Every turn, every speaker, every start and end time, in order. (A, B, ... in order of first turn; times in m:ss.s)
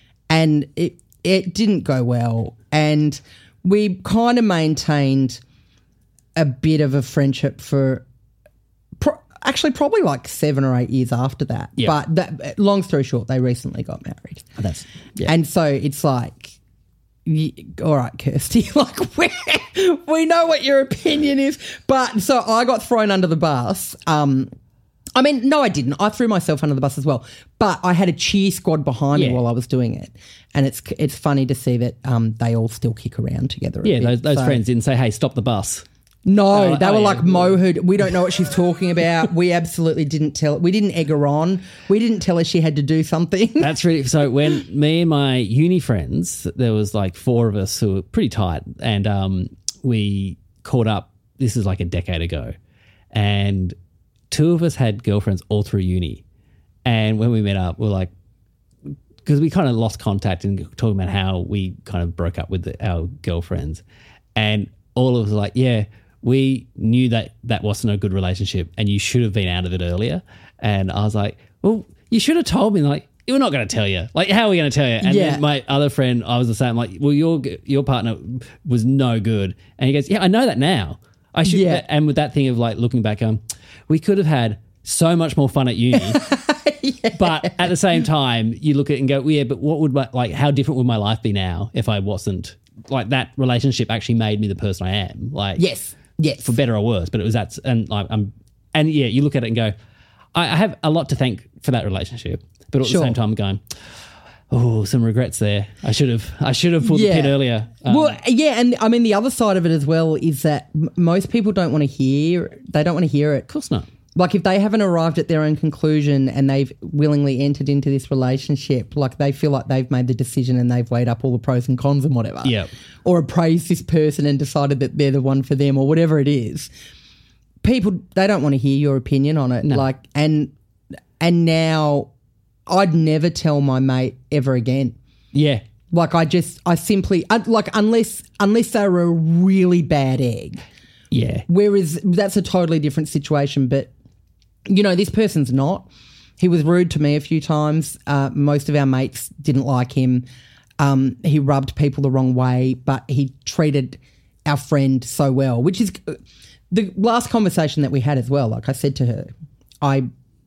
0:00.3-0:05.4 A
0:06.4-0:08.0 A
0:09.0-0:14.6 A
0:14.6-0:15.3 B
0:15.2-0:16.6 A
0:17.2-0:24.5 A
0:25.1-0:34.6 A
0:29.1-0:29.4 B
0:33.8-0:35.8 B
0:36.2-0:43.7 A
0:36.5-0:37.6 B
0:43.6-0:52.5 B
0:53.1-0:53.8 B
0:54.3-0:56.2 B
0:56.8-0:58.1 B
0:59.2-1:03.8 B
1:04.3-1:26.3 B
1:15.0-1:15.4 A
1:21.4-1:21.8 A
1:25.9-1:27.8 A
1:27.2-1:35.6 B
1:35.6-1:36.5 A
1:36.4-1:39.7 B
1:40.3-1:43.6 B
1:42.8-1:43.2 A
1:44.5-1:48.2 B
1:46.8-1:53.5 A
1:53.5-1:53.9 B
1:54.1-2:06.7 A
2:02.4-2:02.7 B
2:07.6-2:10.5 A
2:11.2-2:12.1 A
2:12.7-2:15.0 A
2:15.3-2:15.6 B
2:15.9-2:20.6 A
2:21.1-2:21.4 B
2:21.5-2:23.9 A
2:24.7-2:25.9 A
2:26.4-2:30.2 A
2:30.8-2:39.3 A
2:39.8-2:40.1 A